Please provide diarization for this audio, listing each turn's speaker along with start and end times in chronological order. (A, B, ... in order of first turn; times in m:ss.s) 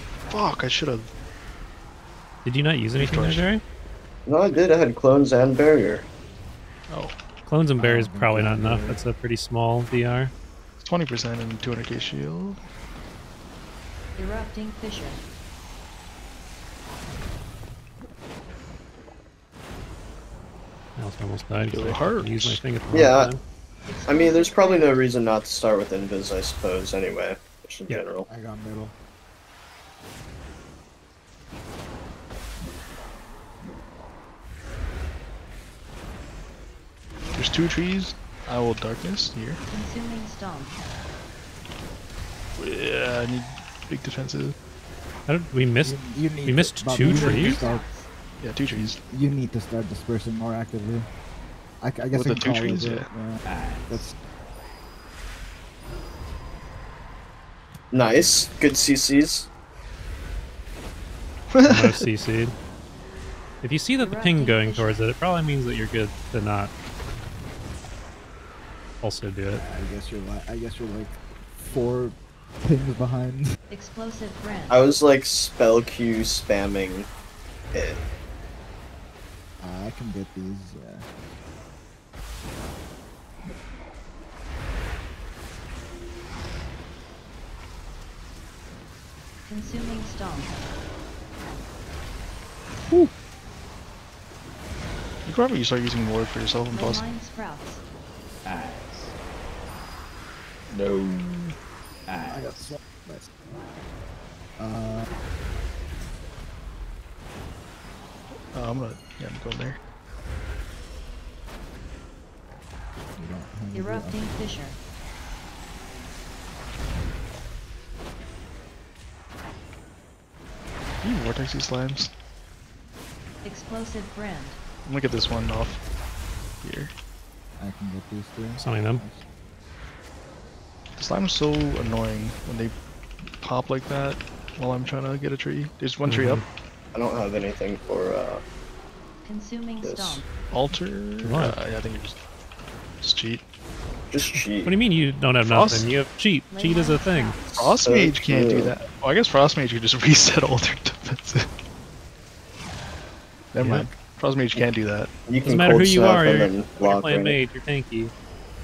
0:00.3-0:01.1 A
0:02.4-0:03.6 B
0:03.0-0:03.4 A
0:04.3-0:06.0 C
0:06.9-0:07.2 A
0:07.4-0:10.3 B
0:07.8-0:09.0 D
0:10.8-0:12.6 A
0:14.2-0:15.2 E
0:21.0-0:23.4 B
0:21.7-0:22.6 A
0:22.9-0:23.3 C
0:23.9-0:25.0 E
0:24.0-0:28.3 C
0:28.3-0:28.9 D
0:37.3-0:39.6 A
0:39.7-0:40.8 E
0:42.6-0:44.5 A
0:45.3-0:47.6 B
0:45.8-0:47.8 D
0:47.1-0:47.6 A
0:47.1-0:48.1 E
0:48.4-0:49.0 A
0:48.7-0:51.1 D
0:51.8-0:54.1 D
0:52.1-0:53.1 A
0:57.9-0:59.5 C
1:01.5-1:02.1 A
1:01.6-1:02.5 B
1:03.6-1:06.7 B
1:04.0-1:05.0 E
1:09.0-1:09.6 B
1:09.5-1:13.5 D
1:13.7-1:14.8 E
1:14.7-1:17.1 C
1:17.7-1:18.0 C
1:19.6-1:21.1 D
1:29.5-1:30.5 E
1:35.2-1:37.0 A
1:36.7-1:37.8 E
1:40.8-1:41.5 D
1:42.2-1:43.6 D
1:44.6-1:45.1 D
1:48.5-1:49.8 A
1:53.2-1:54.2 D
1:53.7-1:54.8 E
2:01.0-2:02.1 A
2:03.4-2:04.6 E
2:04.8-2:05.8 A
2:06.6-2:06.9 A
2:07.6-2:09.2 D
2:08.6-2:09.0 B
2:11.0-2:12.7 A
2:13.4-2:16.4 A
2:16.0-2:16.4 B
2:16.9-2:18.4 C
2:19.2-2:20.3 E
2:19.8-2:20.3 C
2:20.5-2:22.2 A
2:21.2-2:21.6 B
2:23.0-2:23.4 A
2:24.1-2:24.7 C
2:24.2-2:27.4 B
2:25.4-2:25.9 A
2:26.5-2:27.4 E
2:27.5-2:28.8 C
2:27.6-2:31.5 A
2:33.5-2:35.1 A
2:33.6-2:33.9 B
2:35.2-2:37.4 C
2:35.4-2:38.1 B